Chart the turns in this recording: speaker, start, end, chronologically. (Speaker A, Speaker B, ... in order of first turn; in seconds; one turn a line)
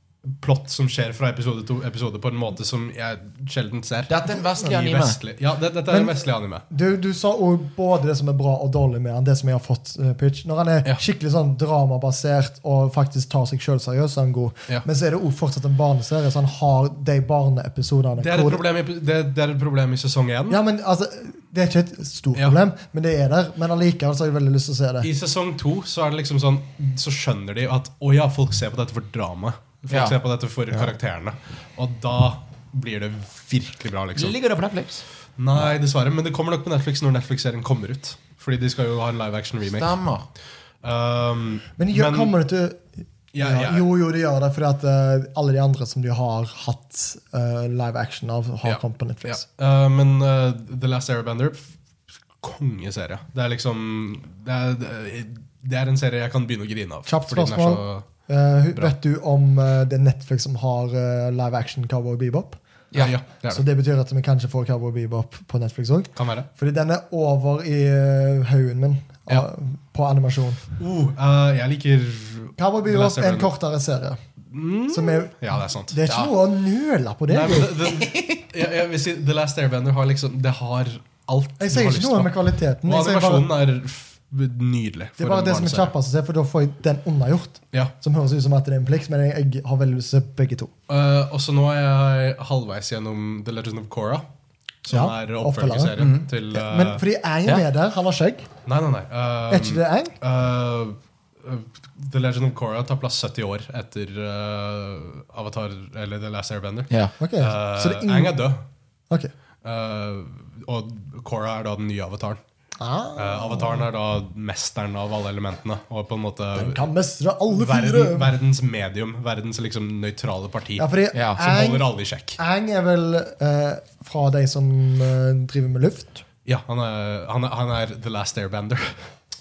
Speaker A: 0.3-6.7
Speaker B: 4.1-5.2
Speaker C: 5.9-18.6
Speaker A: 18.2-20.6
Speaker C: 20.5-25.1
Speaker A: 25.0-34.4
Speaker B: 29.9-30.2
Speaker B: 34.1-35.0
Speaker A: 35.4-39.9
Speaker B: 39.7-40.3
Speaker A: 40.8-42.3
Speaker C: 41.8-42.9
Speaker A: 43.3-43.9
Speaker C: 43.4-49.4
Speaker A: 48.6-51.7
Speaker A: 52.4-58.0
Speaker C: 57.1-62.6
Speaker A: 63.0-63.6
Speaker C: 63.5-70.6
Speaker A: 66.2-66.5
Speaker A: 70.8-73.5
Speaker C: 72.6-74.2
Speaker A: 74.5-76.0
Speaker C: 74.9-77.8
Speaker A: 77.3-82.3
Speaker B: 77.8-78.5
Speaker C: 81.6-83.5
Speaker A: 82.8-85.9
Speaker C: 85.2-90.7
Speaker A: 90.9-94.2
Speaker A: 94.8-97.0
Speaker C: 94.9-96.0
Speaker B: 96.0-96.3
Speaker C: 96.5-98.5
Speaker A: 98.7-108.6
Speaker C: 99.5-100.2
Speaker C: 107.2-108.4
Speaker A: 109.6-112.4
Speaker C: 112.8-113.9
Speaker A: 113.2-116.9
Speaker C: 116.5-118.3
Speaker A: 117.5-120.8
Speaker C: 120.8-126.2
Speaker B: 121.1-121.4
Speaker A: 121.4-122.4
Speaker A: 126.5-129.0